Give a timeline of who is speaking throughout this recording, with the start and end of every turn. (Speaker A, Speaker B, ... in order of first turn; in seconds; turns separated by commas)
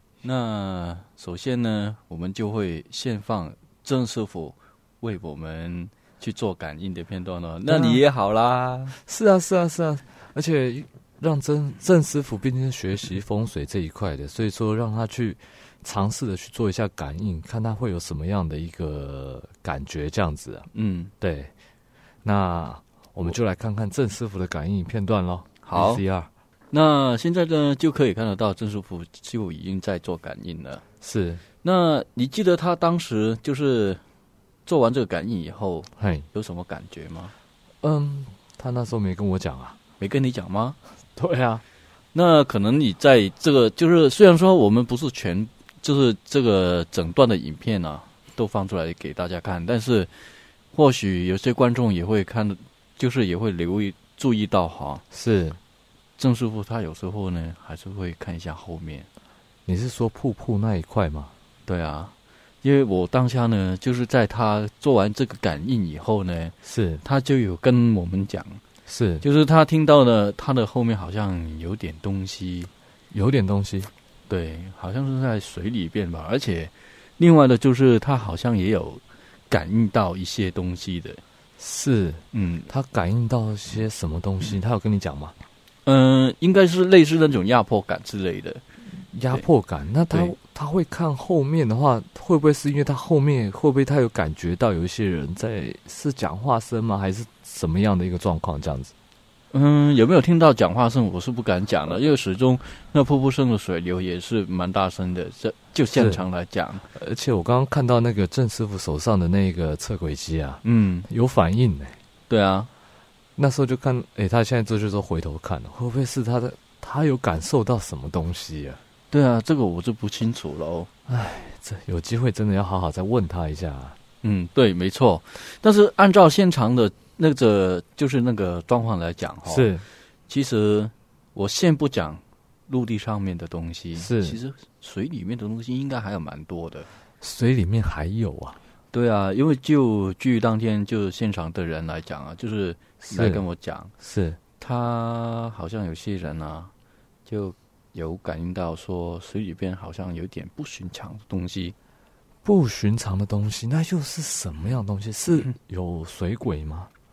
Speaker A: 0.2-9.0, Speaker B: 7.7-8.0, Speaker B: 9.0-20.7, Speaker A: 20.7-21.1, Speaker B: 21.2-21.5, Speaker B: 22.2-26.3, Speaker A: 25.6-26.0, Speaker A: 26.7-30.8, Speaker B: 31.0-31.4, Speaker A: 31.6-34.0, Speaker A: 34.6-37.3, Speaker B: 36.0-36.2, Speaker B: 37.8-39.8, Speaker A: 40.0-40.8, Speaker B: 41.1-41.6, Speaker A: 42.1-55.0, Speaker B: 55.1-55.6, Speaker A: 56.2-59.1, Speaker B: 59.6-61.3, Speaker A: 61.6-68.6, Speaker B: 66.6-67.0, Speaker B: 68.8-69.2, Speaker A: 69.2-72.7, Speaker B: 73.1-73.9, Speaker A: 74.3-81.2, Speaker B: 81.6-85.3, Speaker A: 82.3-82.7, Speaker A: 85.8-88.6, Speaker B: 88.8-98.9, Speaker A: 99.5-106.8, Speaker B: 105.9-106.2, Speaker B: 106.9-112.0, Speaker A: 110.6-111.1, Speaker A: 112.3-112.7, Speaker B: 113.4-118.8, Speaker A: 119.1-120.9, Speaker B: 121.1-124.0, Speaker A: 124.2-129.7, Speaker B: 129.4-129.9, Speaker A: 130.3-136.9, Speaker B: 133.9-134.4, Speaker B: 137.2-138.6, Speaker A: 138.9-143.9, Speaker B: 143.1-143.4, Speaker B: 144.0-144.4, Speaker A: 144.6-146.7, Speaker A: 147.2-151.8, Speaker B: 152.4-156.9